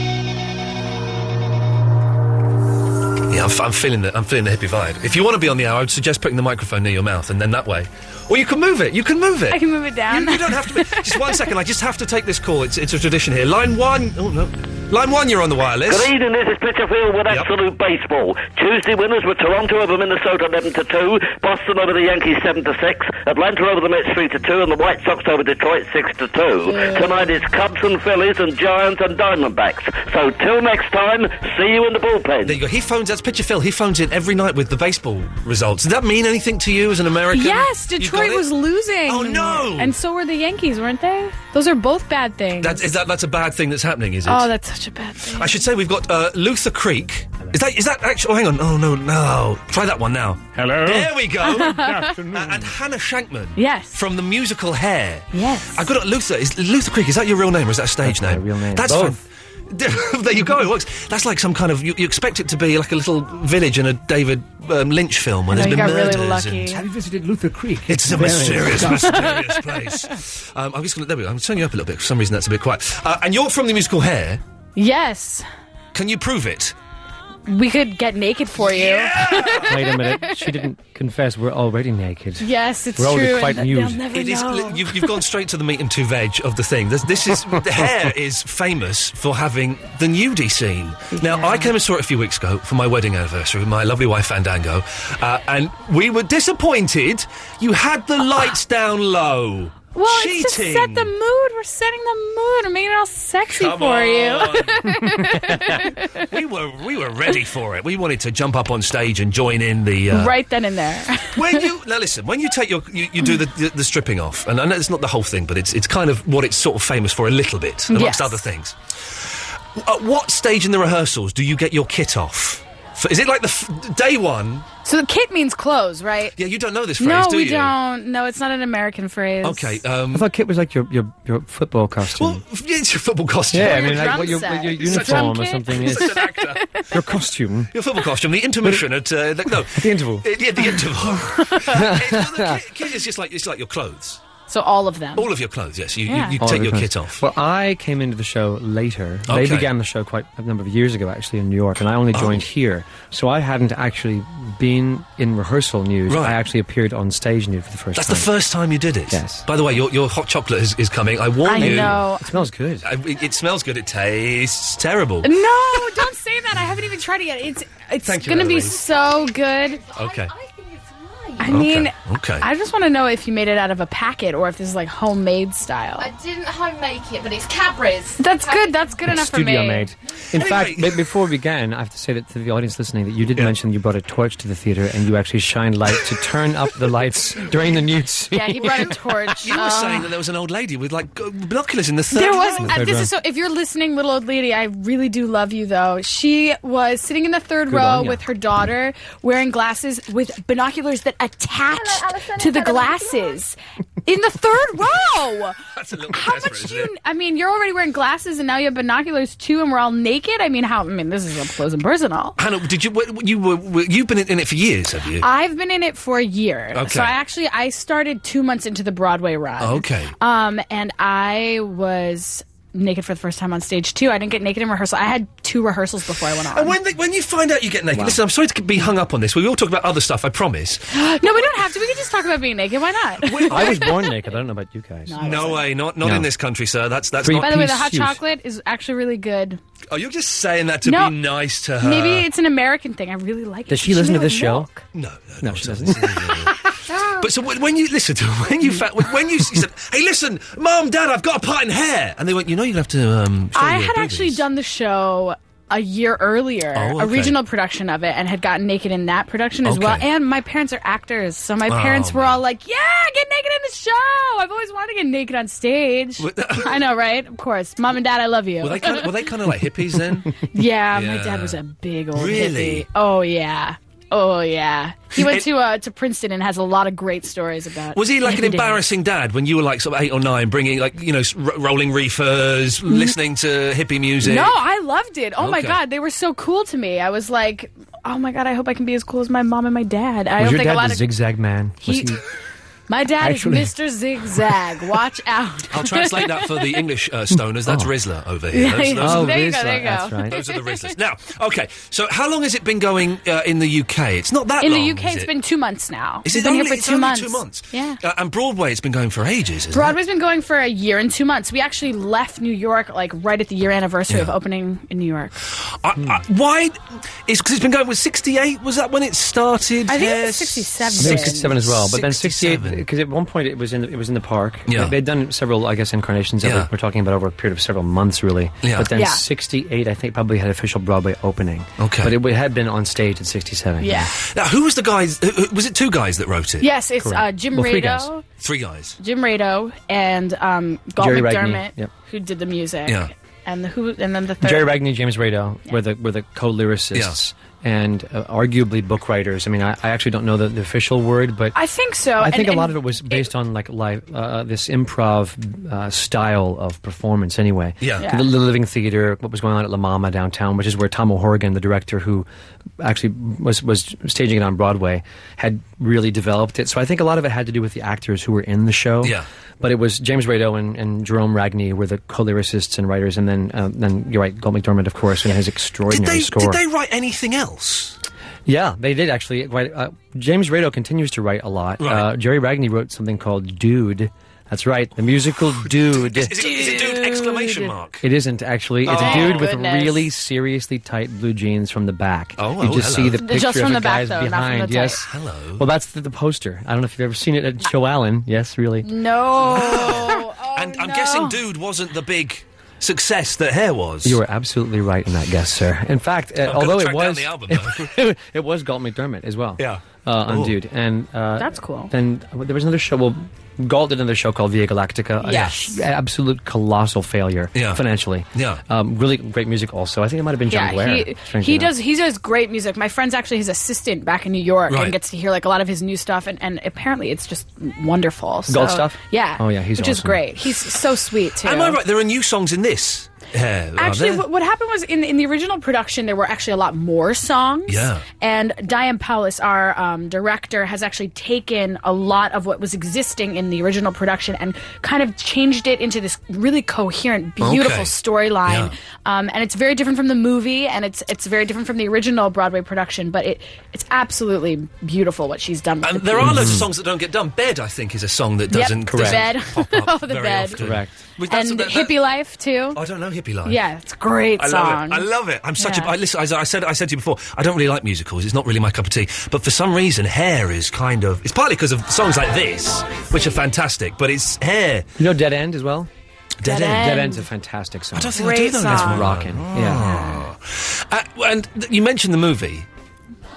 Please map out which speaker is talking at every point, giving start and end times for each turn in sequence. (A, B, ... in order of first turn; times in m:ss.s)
0:03.3-0:16.1 A
0:09.5-0:11.4 B
0:15.9-0:32.6 C
0:17.3-0:17.5 A
0:26.7-0:27.3 B
0:32.4-0:38.4 A
0:37.3-0:42.9 B
0:39.1-0:40.0 A
0:42.6-0:44.5 A
0:44.3-0:45.6 B
0:45.3-1:06.8 A
0:50.6-0:51.1 D
0:51.4-0:52.2 B
0:51.7-0:52.7 D
0:53.6-0:54.0 B
0:55.3-0:55.8 B
0:58.0-0:59.2 E
1:05.5-1:06.8 B
1:06.7-1:09.3 D
1:07.9-1:14.4 A
1:08.2-1:09.0 E
1:14.8-1:15.4 B
1:15.9-1:16.8 A
1:17.5-1:20.6 B
1:18.6-1:19.8 A
1:19.6-1:24.0 E
1:22.4-1:25.2 B
1:24.1-1:41.1 A
1:31.1-1:31.8 B
1:40.0-1:46.2 B
1:43.5-1:45.0 A
1:46.2-1:50.4 A
1:50.1-1:51.6 B
1:51.3-2:04.7 A
1:57.9-1:58.4 B
2:04.8-2:06.4 B
2:06.4-2:07.7 A
2:07.0-2:09.8 B
2:09.4-2:10.3 A
2:10.1-2:12.4 E
2:12.2-2:16.7 A
2:13.5-2:16.2 E
2:13.6-2:16.9 B
2:16.9-2:17.7 E
2:17.7-2:24.2 A
2:19.6-2:20.3 E
2:21.5-2:21.7 B
2:21.7-2:22.6 E
2:24.5-2:25.3 B
2:25.2-2:27.2 A
2:26.1-2:26.4 B
2:26.4-2:38.3 E
2:29.3-2:29.7 A
2:32.1-2:32.4 A
2:36.1-2:36.4 A
2:38.0-2:42.0 A
2:39.1-2:39.4 E
2:41.5-2:42.3 B
2:41.6-2:42.9 E
2:42.8-2:45.3 A
2:45.2-2:49.8 B
2:48.0-2:48.8 A
2:49.6-2:51.5 F
2:49.9-2:50.3 A
2:51.4-2:56.1 B
2:51.5-2:52.4 A
2:56.0-2:58.8 F
2:58.2-2:59.9 B
2:59.0-3:09.5 E
3:00.3-3:01.0 A
3:08.3-3:10.1 B
3:09.4-3:12.8 A
3:12.1-3:25.6 B
3:12.6-3:13.1 E
3:17.7-3:18.2 E
3:22.0-3:22.9 F
3:25.7-3:26.9 A
3:26.1-3:32.4 B
3:32.4-3:35.3 A
3:35.2-3:46.8 B
3:36.7-3:37.1 A
3:39.6-3:40.1 A
3:46.5-3:50.9 A
3:47.9-3:48.2 E
3:50.9-3:53.9 B
3:53.2-3:53.8 A
3:53.5-3:55.2 E
3:55.1-3:55.6 B
3:55.2-3:57.7 A
3:56.0-3:56.3 E
3:57.2-3:58.2 E
3:57.3-3:59.6 B
3:59.9-4:02.3 A
4:00.8-4:01.2 B
4:01.8-4:04.8 B
4:03.7-4:04.7 E
4:04.9-4:14.4 A
4:05.4-4:06.1 E
4:06.7-4:07.2 B
4:13.6-4:29.1 B
4:16.8-4:17.4 A
4:19.6-4:20.0 A
4:21.7-4:22.4 A
4:26.2-4:26.8 A
4:28.6-4:30.3 A
4:30.5-4:38.8 B
4:30.9-4:31.6 A
4:32.2-4:32.8 A
4:35.2-4:35.5 A
4:38.0-4:44.5 A
4:42.9-4:43.1 B
4:44.2-4:51.0 B
4:45.4-4:45.8 A
4:50.4-4:52.2 E
4:51.8-4:52.1 B
4:52.9-4:56.6 B
4:53.2-4:53.7 E
4:55.7-4:59.4 A
4:57.6-4:57.9 E
4:58.5-5:00.9 B
4:59.0-5:00.4 E
5:00.3-5:05.3 A
5:04.6-5:08.0 B
5:06.2-5:10.0 A
5:09.7-5:15.4 B
5:15.8-5:22.8 A
5:19.9-5:21.5 B
5:21.0-5:34.1 E
5:24.7-5:25.0 A
5:26.4-5:26.7 A
5:28.6-5:28.9 A
5:28.9-5:29.2 B
5:31.8-5:32.2 A
5:33.8-5:34.2 B
5:34.3-5:36.7 A
5:36.6-5:38.2 B
5:37.0-5:38.1 E
5:38.4-5:39.0 A
5:39.0-5:44.7 B
5:41.0-5:41.9 E
5:44.4-5:51.6 E
5:51.6-5:53.3 B
5:52.2-6:02.3 E
5:57.8-5:58.1 A
6:02.8-6:16.6 E
6:15.9-6:18.0 A
6:18.5-6:26.6 E
6:21.8-6:22.1 A
6:25.5-6:28.0 A
6:26.4-6:27.7 B
6:28.0-6:35.0 E
6:28.8-6:29.5 A
6:28.9-6:30.0 B
6:32.4-6:33.2 A
6:33.2-6:35.0 B
6:35.0-6:35.6 A
6:35.6-6:38.9 E
6:38.8-6:41.4 B
6:39.4-6:44.2 A
6:44.0-7:01.7 E
6:46.4-6:47.9 A
6:49.6-6:50.6 A
6:51.4-6:51.9 B
6:55.2-6:55.8 B
6:57.6-6:57.8 A
6:58.4-6:58.6 A
7:00.5-7:11.8 B
7:04.7-7:05.0 A
7:08.5-7:10.2 E
7:11.4-7:14.2 A
7:13.8-7:36.5 B
7:17.7-7:18.0 A
7:27.4-7:28.7 A
7:35.8-7:41.9 A
7:36.2-7:36.7 E
7:38.5-7:40.6 B
7:38.8-7:39.3 E
7:40.6-7:40.9 E
7:41.3-7:42.8 B
7:42.7-7:43.6 A
7:43.4-7:45.0 B
7:44.4-7:54.9 A
7:45.6-7:45.9 B
7:55.0-7:55.9 E
7:56.4-7:56.9 A
7:56.4-7:57.2 B
7:56.5-7:59.8 E
7:57.9-8:02.7 A
7:58.2-7:59.1 B
7:59.6-8:00.2 B